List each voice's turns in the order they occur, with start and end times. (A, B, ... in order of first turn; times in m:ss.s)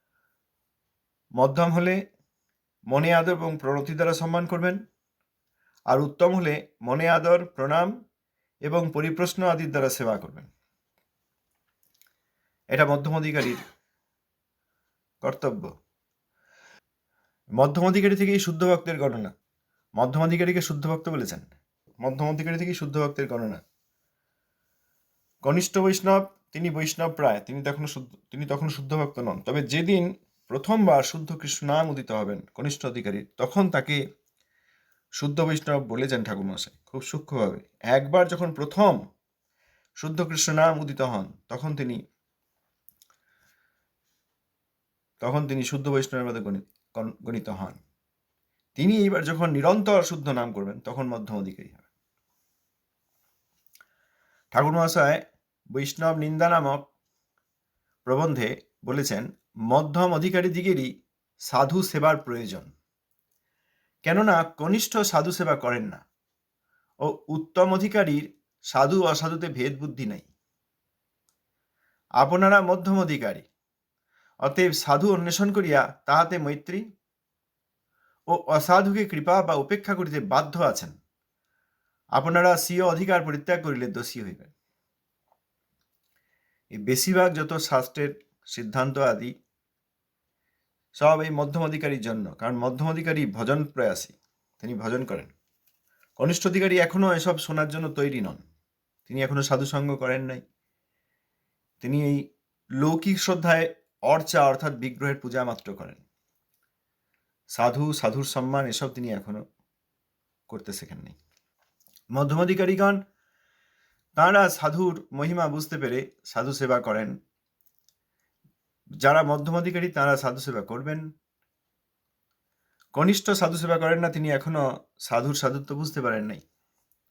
0:01.4-0:02.0 A
0:02.9-0:04.8 A
0:05.9-0:07.9 A
0:08.7-0:10.5 A
0:12.7-0:13.6 A
0:15.2-0:15.7 A
0:17.6-0:19.3 A
0:20.0-0:21.4 A
0:22.0-0:23.6 A
0:25.4-0:34.0 A
0:35.2-0:39.0 A
0:40.0-0:42.0 A
0:45.2-0:47.8 A
0:48.8-0:51.8 A
0:54.5-0:55.2 A
0:55.7-0:56.8 A
0:58.0-1:00.9 A
1:01.5-1:02.7 A
1:04.0-1:06.0 A
1:07.0-1:10.3 A
1:12.2-1:13.4 A
1:14.4-1:16.8 A
1:18.3-1:20.9 A
1:22.2-1:24.5 A
1:26.8-1:29.3 A
1:31.0-1:35.3 A
1:36.2-1:38.4 A
1:39.1-1:40.4 A
1:41.8-1:42.2 A
1:42.8-1:46.0 A
1:47.6-1:49.4 A
1:50.5-1:51.2 A
1:52.2-1:53.0 A
1:54.2-1:57.2 A
1:59.0-2:01.0 A
2:02.9-2:06.4 A